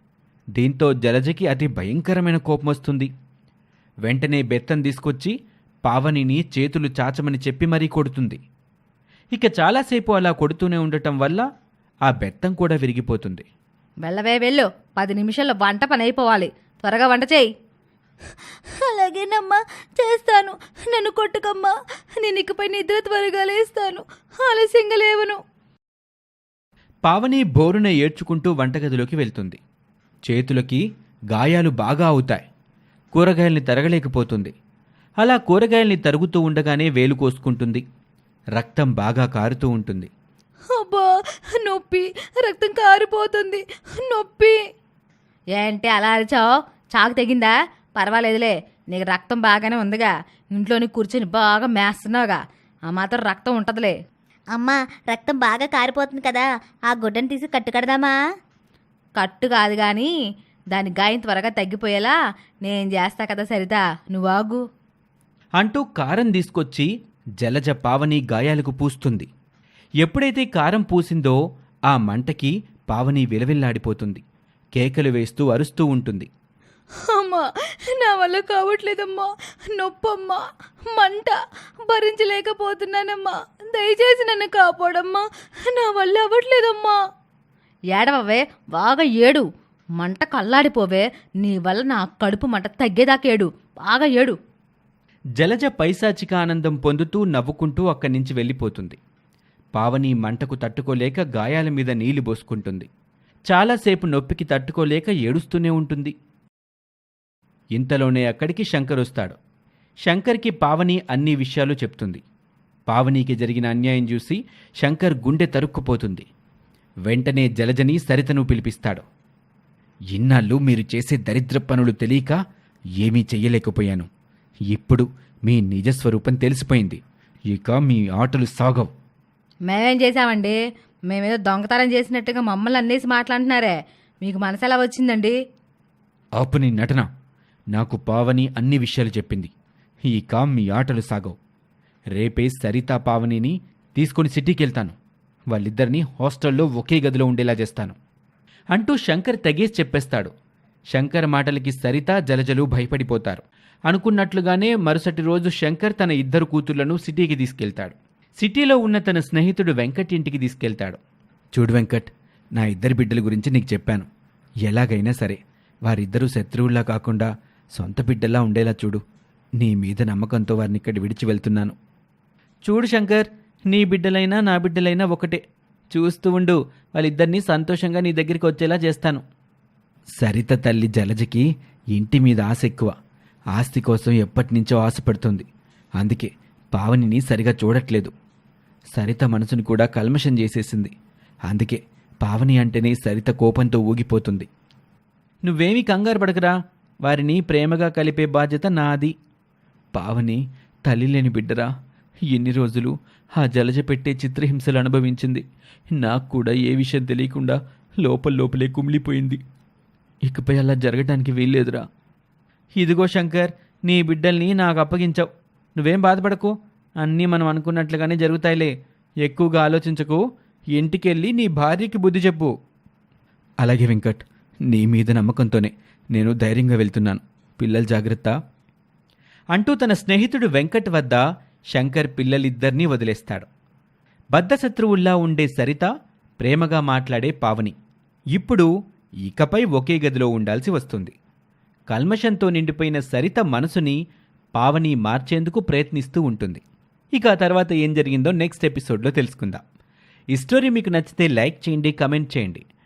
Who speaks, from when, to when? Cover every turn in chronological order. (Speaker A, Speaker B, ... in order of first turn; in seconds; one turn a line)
Speaker A: 0.6-3.1
Speaker A: 4.0-5.3
Speaker A: 5.8-8.4
Speaker A: 9.3-11.4
Speaker A: 12.1-13.4
Speaker B: 14.0-17.5
Speaker B: 19.0-25.4
Speaker A: 27.1-29.6
Speaker A: 30.3-32.4
Speaker A: 33.1-34.5
Speaker A: 35.2-37.8
Speaker A: 38.5-40.1
Speaker B: 40.7-44.6
Speaker B: 45.5-54.0
Speaker C: 54.5-58.1
Speaker B: 59.2-60.1
Speaker B: 60.7-64.6
Speaker A: 65.6-66.9
Speaker A: 67.4-69.3
Speaker A: 70.0-74.2
Speaker A: 74.7-76.3
Speaker B: 77.0-87.0
Speaker B: 87.9-89.4
Speaker B: 90.0-94.3
Speaker A: 95.4-99.0
Speaker A: 99.7-102.9
Speaker A: 103.5-106.1
Speaker A: 107.7-109.4
Speaker A: 110.1-112.2
Speaker A: 112.9-116.3
Speaker A: 117.1-119.0
Speaker A: 120.1-122.4
Speaker A: 123.0-124.1
Speaker A: 124.7-128.9
Speaker B: 129.7-130.6
Speaker B: 131.1-135.3
Speaker A: 136.4-137.1
Speaker A: 137.7-139.5
Speaker A: 140.1-141.4
Speaker A: 142.1-145.0
Speaker A: 145.5-147.9
Speaker A: 148.7-150.3
Speaker A: 150.9-161.0
Speaker A: 161.5-164.1
Speaker A: 164.6-169.0
Speaker A: 169.6-171.8
Speaker A: 172.6-179.2
Speaker A: 180.2-182.9
Speaker A: 183.5-185.5
Speaker A: 186.0-188.1
Speaker A: 188.9-190.9
Speaker A: 191.5-194.5
Speaker A: 195.4-199.1
Speaker A: 199.9-201.7
Speaker A: 202.3-209.4
Speaker A: 210.2-211.8
Speaker A: 212.8-215.3
Speaker A: 215.8-220.2
Speaker A: 220.7-222.5
Speaker A: 223.6-228.3
Speaker A: 229.5-231.2
Speaker A: 231.7-233.5
Speaker A: 234.3-237.8
Speaker A: 238.3-238.7
Speaker A: 239.2-241.1
Speaker A: 241.9-244.0
Speaker A: 244.6-246.6
Speaker A: 247.2-249.6
Speaker A: 250.3-252.6